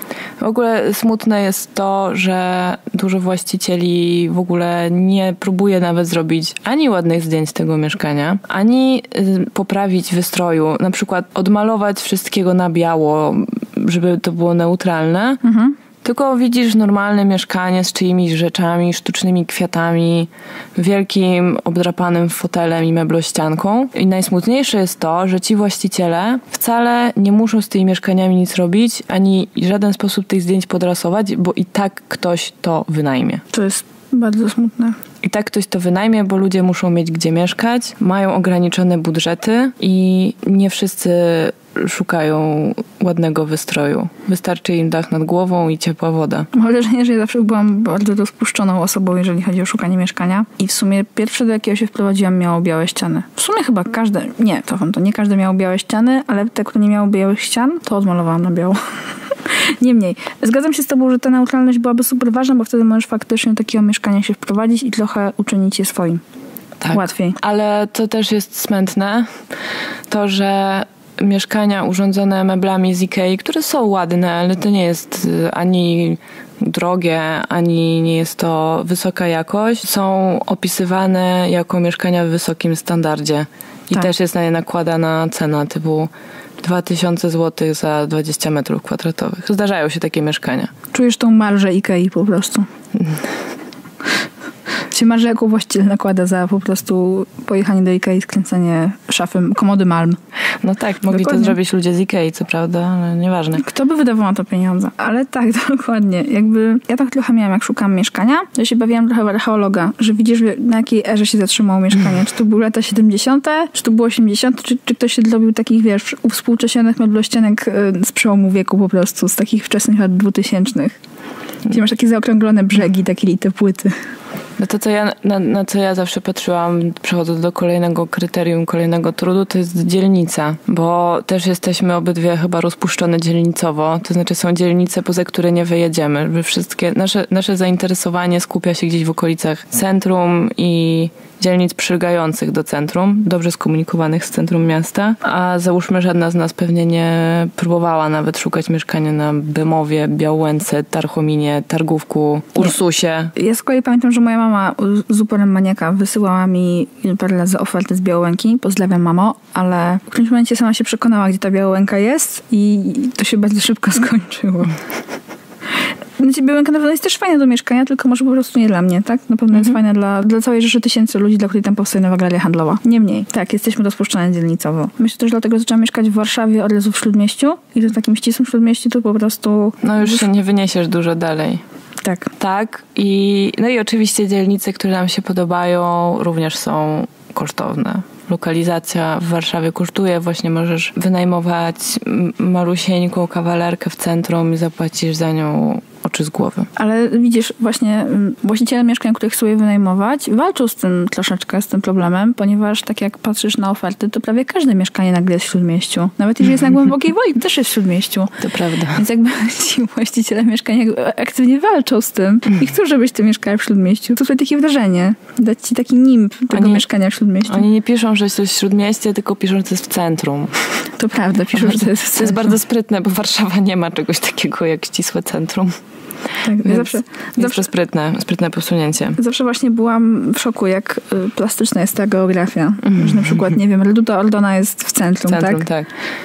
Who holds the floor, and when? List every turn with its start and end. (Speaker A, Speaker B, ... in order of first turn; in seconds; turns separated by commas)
Speaker A: 0.4-15.4, Speaker B: 15.4-15.8, Speaker A: 16.0-33.4, Speaker B: 33.5-35.0, Speaker A: 35.2-46.5, Speaker B: 46.5-66.2, Speaker A: 66.8-69.3, Speaker B: 66.9-67.4, Speaker A: 70.1-90.7, Speaker B: 90.9-92.7, Speaker A: 93.0-93.2, Speaker B: 94.9-100.2, Speaker A: 100.6-103.6, Speaker B: 101.1-101.6, Speaker B: 103.6-121.0, Speaker B: 121.7-124.0, Speaker A: 124.6-153.3, Speaker B: 153.3-164.8, Speaker B: 166.2-180.3, Speaker A: 179.8-181.6, Speaker B: 182.0-182.3, Speaker A: 182.4-196.7, Speaker B: 196.8-217.7, Speaker A: 208.4-209.0, Speaker A: 216.5-216.8, Speaker A: 217.5-220.6, Speaker B: 220.9-222.5, Speaker A: 221.7-225.8, Speaker B: 226.4-227.7, Speaker A: 226.6-229.2, Speaker B: 229.2-235.7, Speaker A: 232.8-233.4, Speaker A: 235.3-235.9